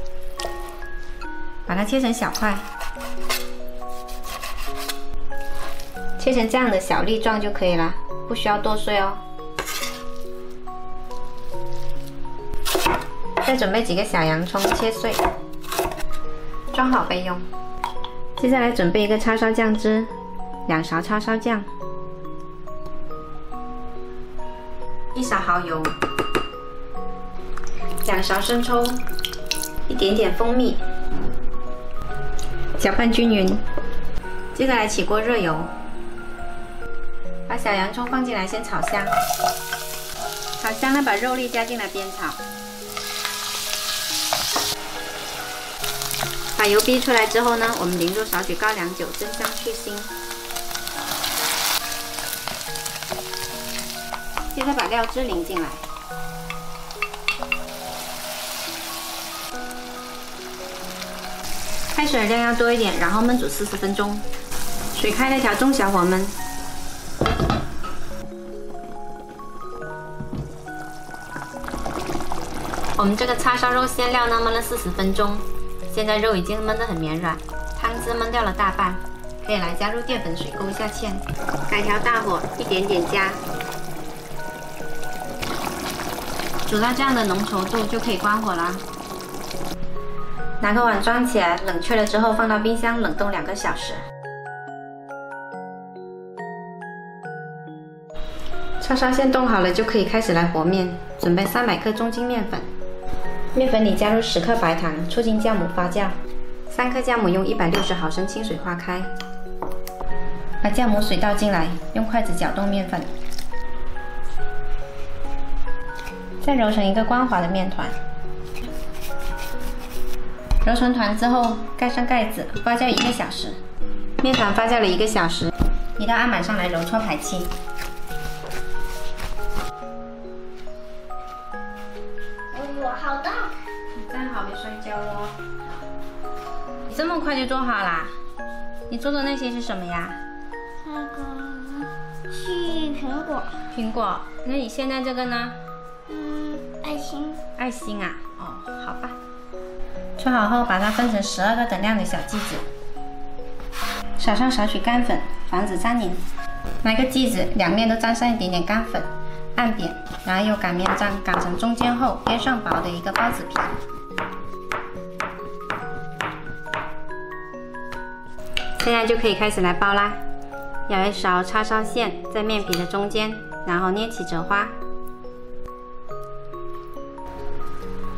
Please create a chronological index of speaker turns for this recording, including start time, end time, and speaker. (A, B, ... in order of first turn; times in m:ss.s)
0:01.7-0:02.6 A
0:06.2-0:09.2 A
0:13.4-0:15.2 A
0:16.7-0:17.4 A
0:18.4-0:20.1 A
0:20.7-0:21.7 A
0:25.1-0:25.9 A
0:28.0-0:29.0 A
0:29.9-0:30.8 A
0:32.8-0:33.6 A
0:34.5-0:35.7 A
0:37.5-0:39.1 A
0:40.6-0:42.4 A
0:46.6-0:50.1 A
0:54.5-0:55.8 A
1:01.9-1:04.2 A
1:04.9-1:06.3 A
1:13.0-1:23.4 A
1:26.7-1:28.8 A
1:30.6-1:34.0 A
1:38.8-1:42.7 A
1:43.5-1:46.1 A
1:46.7-1:49.1 A
1:50.6-1:53.1 A
1:56.4-1:58.0 A
2:00.6-2:03.6 A
2:04.2-2:07.5 A
2:12.5-2:13.5 B
2:13.9-2:15.4 A
2:16.9-2:18.1 A
2:18.9-2:20.2 A
2:20.8-2:23.5 B
2:23.7-2:25.6 A
2:26.1-2:27.4 B
2:27.6-2:29.2 A
2:30.2-2:32.6 A
2:34.2-2:36.2 A
2:36.8-2:43.8 A
2:48.8-2:50.2 A
2:50.9-2:54.8 A